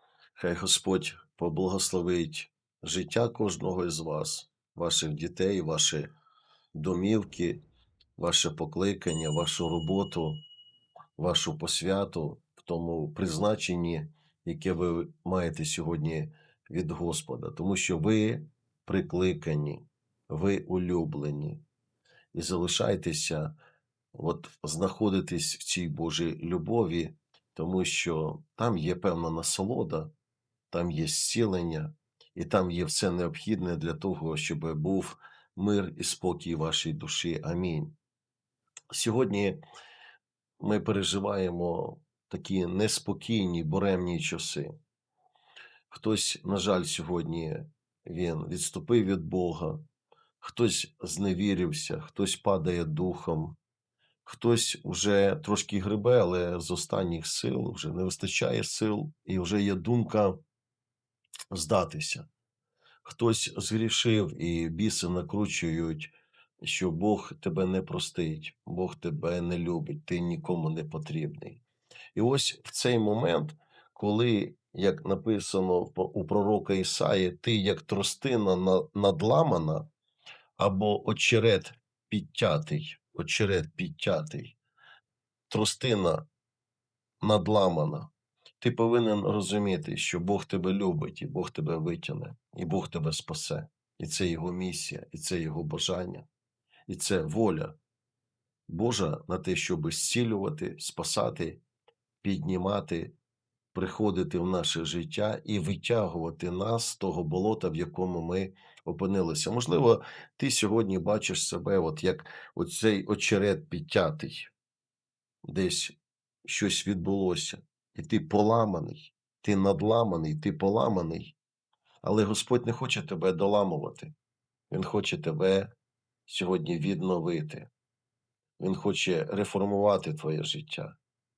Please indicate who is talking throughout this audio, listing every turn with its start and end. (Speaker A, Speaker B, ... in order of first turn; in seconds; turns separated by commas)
Speaker A: 0.3-6.1, Speaker A: 6.7-7.6, Speaker A: 8.2-10.4, Speaker A: 11.2-21.6, Speaker A: 22.3-23.5, Speaker A: 24.1-30.1, Speaker A: 30.7-37.9, Speaker A: 38.9-39.6, Speaker A: 40.6-44.7, Speaker A: 45.9-49.8, Speaker A: 50.4-53.6, Speaker A: 54.2-60.4, Speaker A: 61.5-62.3, Speaker A: 63.0-71.6, Speaker A: 72.1-79.9, Speaker A: 80.6-84.6, Speaker A: 85.5-86.2, Speaker A: 87.2-96.3, Speaker A: 96.9-97.8, Speaker A: 98.7-101.6, Speaker A: 102.2-103.1, Speaker A: 103.7-114.5, Speaker A: 115.5-121.3, Speaker A: 122.0-124.1, Speaker A: 124.7-125.7, Speaker A: 126.3-127.7, Speaker A: 128.6-130.9